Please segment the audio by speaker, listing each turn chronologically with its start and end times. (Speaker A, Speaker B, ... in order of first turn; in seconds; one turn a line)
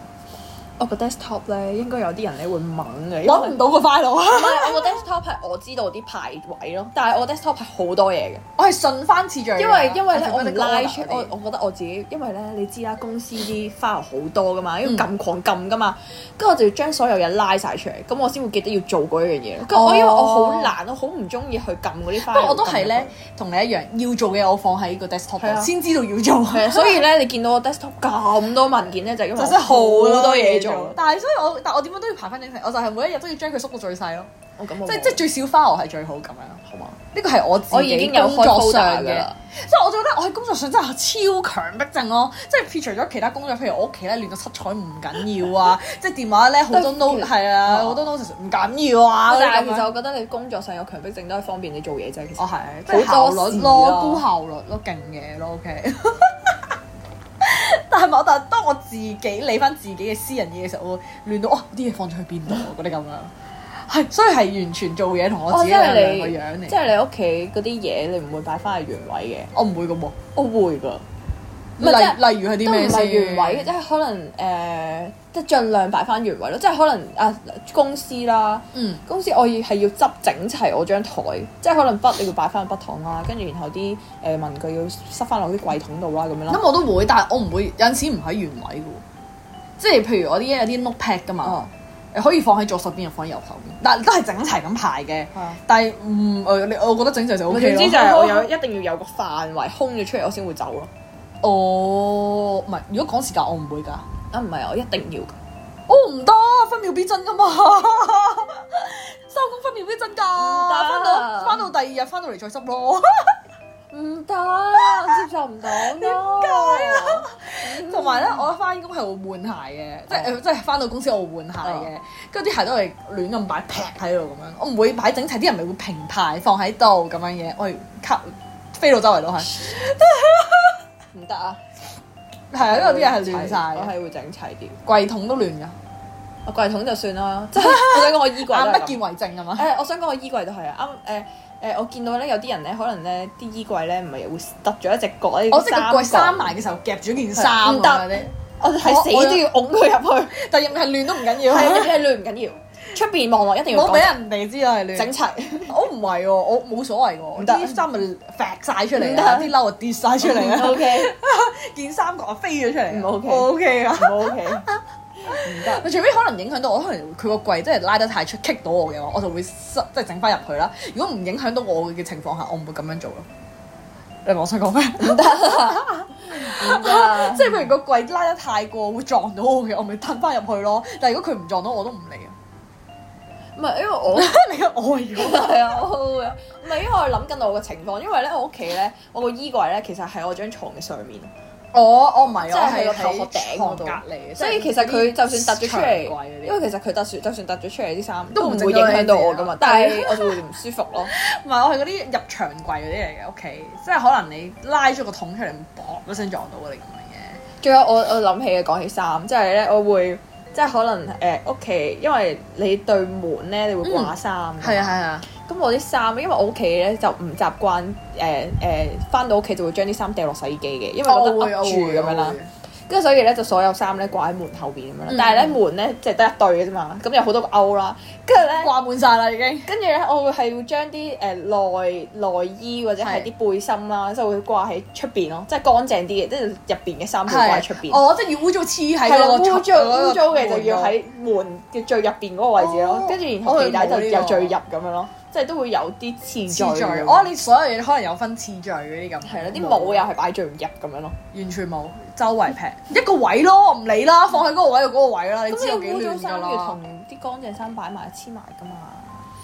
Speaker A: 0.8-3.6
Speaker B: 3.2-5.0
Speaker A: 4.3-8.4
Speaker B: 8.6-11.3
Speaker A: 9.6-23.1
Speaker B: 14.8-15.1
Speaker B: 19.7-20.7
Speaker B: 22.2-27.1
Speaker A: 25.4-25.7
Speaker A: 26.5-31.0
Speaker B: 29.4-34.3
Speaker A: 34.6-35.2
Speaker B: 34.8-49.9
Speaker A: 36.6-37.0
Speaker A: 37.7-39.4
Speaker A: 46.7-48.0
Speaker A: 49.3-54.2
Speaker B: 52.4-56.7
Speaker B: 57.4-66.8
Speaker A: 65.5-69.5
Speaker B: 69.5-70.2
Speaker A: 70.3-71.0
Speaker B: 71.8-73.7
Speaker A: 71.8-86.6
Speaker B: 78.7-79.0
Speaker B: 86.5-89.0
Speaker B: 89.8-98.5
Speaker A: 91.4-91.7
Speaker A: 97.5-100.9
Speaker B: 101.4-104.0
Speaker A: 104.3-105.4
Speaker B: 105.9-113.4
Speaker A: 110.3-111.7
Speaker A: 113.9-118.5
Speaker B: 114.7-130.8
Speaker A: 121.6-121.9
Speaker A: 131.1-131.6
Speaker B: 132.5-133.9
Speaker A: 132.6-134.8
Speaker B: 134.8-135.8
Speaker A: 136.4-139.0
Speaker B: 137.5-139.7
Speaker A: 139.6-146.5
Speaker B: 145.5-149.5
Speaker A: 147.3-150.4
Speaker B: 150.3-152.0
Speaker A: 151.4-154.2
Speaker B: 153.7-155.1
Speaker A: 154.9-155.8
Speaker B: 155.7-173.3
Speaker A: 157.4-157.8
Speaker A: 158.9-159.6
Speaker A: 160.2-161.1
Speaker A: 162.9-164.7
Speaker A: 165.3-165.9
Speaker B: 174.2-182.3
Speaker A: 175.0-177.7
Speaker A: 183.6-184.3
Speaker B: 184.1-185.8
Speaker A: 185.2-191.3
Speaker B: 191.7-196.6
Speaker A: 192.4-201.1
Speaker B: 198.3-200.4
Speaker B: 201.0-207.4
Speaker A: 207.6-228.7
Speaker B: 213.8-215.2
Speaker B: 221.0-222.5
Speaker B: 225.1-225.6
Speaker B: 228.4-229.7
Speaker A: 229.7-238.0
Speaker B: 233.0-233.3
Speaker B: 237.3-241.0
Speaker A: 239.0-247.3
Speaker B: 242.6-244.6
Speaker B: 246.5-250.1
Speaker A: 249.2-251.2
Speaker B: 251.3-256.8
Speaker A: 255.5-259.3